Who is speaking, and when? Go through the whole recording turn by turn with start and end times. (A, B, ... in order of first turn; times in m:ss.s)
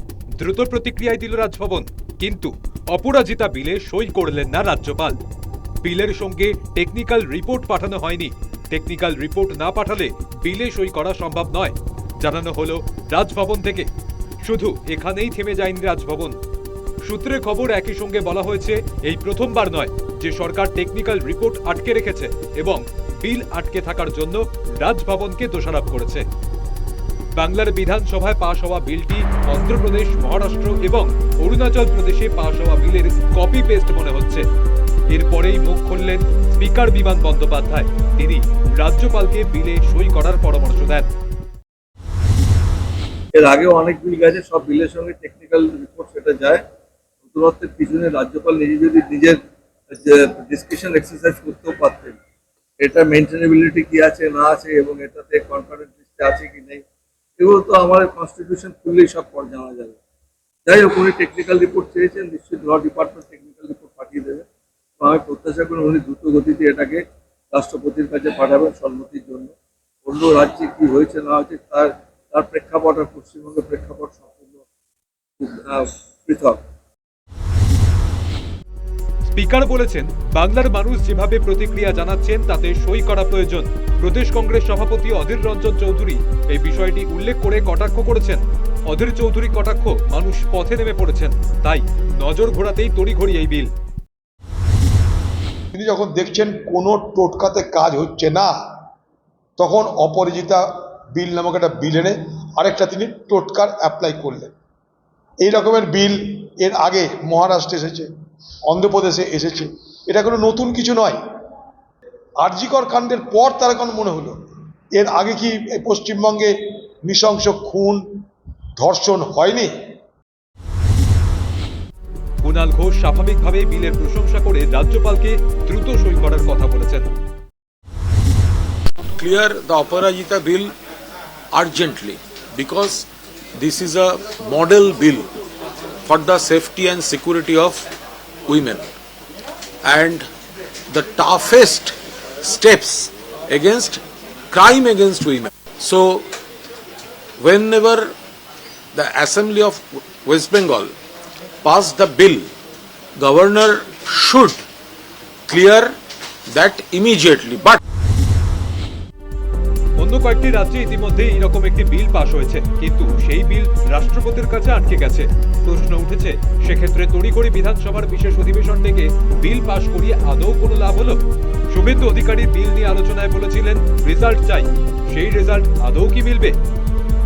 0:00.4-0:05.2 A
0:05.8-0:13.9 A
0:14.4-0:16.3 A
0:17.0-0:26.2 A
0:27.4-0:34.4 A
0:35.1-0:41.1 A
0:43.3-0:46.6 B
0:47.2-0:49.4 B
0:49.9-0:52.2 B
0:52.8-0:56.8 B
0:57.4-1:00.0 B
1:00.6-1:04.4 B
1:05.0-1:09.5 B
1:10.0-1:14.6 B
1:15.4-1:16.6 B
1:19.2-1:33.7 A
1:35.7-1:38.8 C
1:39.6-1:44.5 C
1:45.4-1:48.1 C
1:48.6-1:51.2 C
1:52.4-1:54.4 C
1:54.9-1:58.2 C
1:58.8-1:59.7 C
2:02.4-2:07.1 A
2:09.2-2:10.7 D
2:11.5-2:15.3 D
2:16.0-2:17.8 D
2:18.5-2:18.8 D
2:19.8-2:20.3 D
2:20.9-2:26.3 D
2:27.4-2:28.1 D
2:28.9-2:30.9 D
2:31.6-2:32.5 D
2:33.2-2:34.6 D
2:35.5-2:36.0 D
2:36.5-2:37.8 D
2:40.0-2:51.2 A
2:51.7-2:56.6 A